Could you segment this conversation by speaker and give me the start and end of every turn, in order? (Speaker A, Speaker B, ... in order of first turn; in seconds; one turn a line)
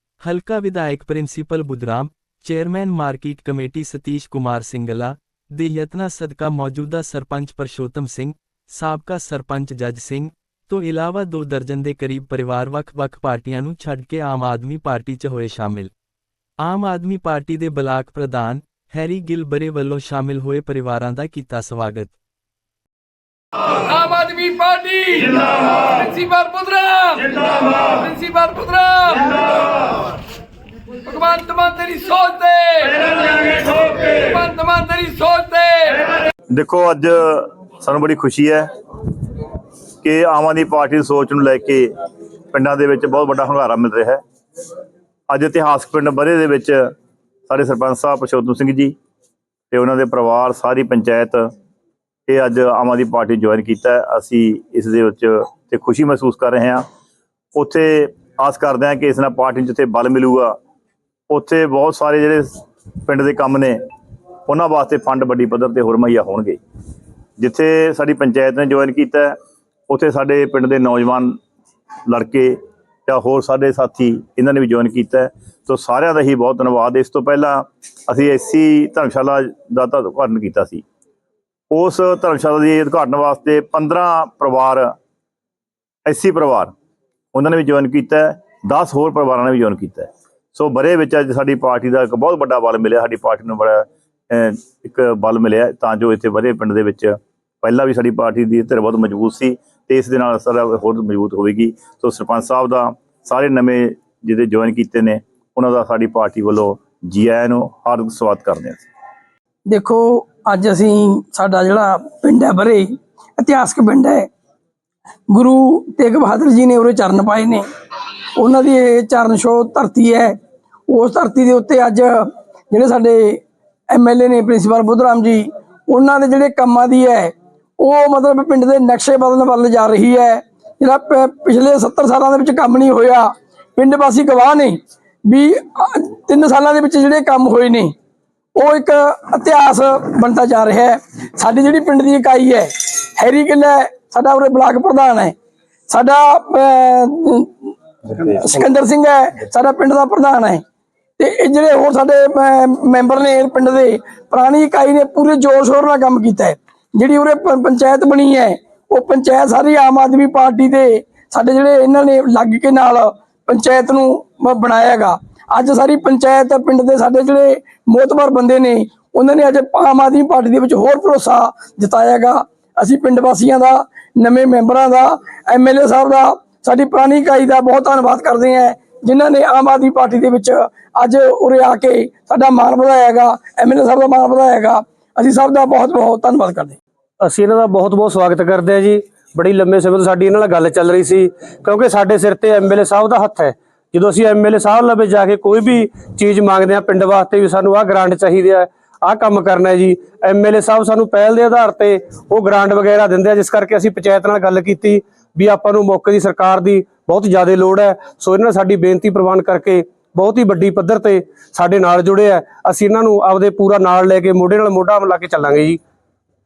Speaker A: 0.2-15.9
Speaker A: 16.6-22.1
Speaker B: 23.9-29.4
Speaker C: 24.1-25.2
Speaker C: 25.9-27.1
Speaker C: 28.1-29.1
Speaker B: 31.1-33.0
Speaker C: 31.3-32.9
Speaker B: 33.6-36.0
Speaker C: 35.1-35.5
Speaker D: 36.5-38.7
Speaker D: 40.0-41.9
Speaker D: 42.5-44.2
Speaker D: 45.3-46.9
Speaker D: 47.5-49.0
Speaker D: 49.7-51.5
Speaker D: 52.3-56.8
Speaker D: 57.5-60.5
Speaker D: 61.3-63.8
Speaker D: 64.5-66.6
Speaker D: 67.4-69.3
Speaker D: 69.9-71.4
Speaker D: 72.1-72.5
Speaker D: 73.1-80.8
Speaker D: 81.7-84.9
Speaker D: 86.0-86.7
Speaker D: 87.3-108.8
Speaker C: 109.7-114.3
Speaker C: 115.3-117.6
Speaker C: 118.4-120.3
Speaker C: 120.9-137.9
Speaker C: 138.6-145.3
Speaker C: 145.9-150.6
Speaker C: 151.2-186.8
Speaker E: 187.2-215.8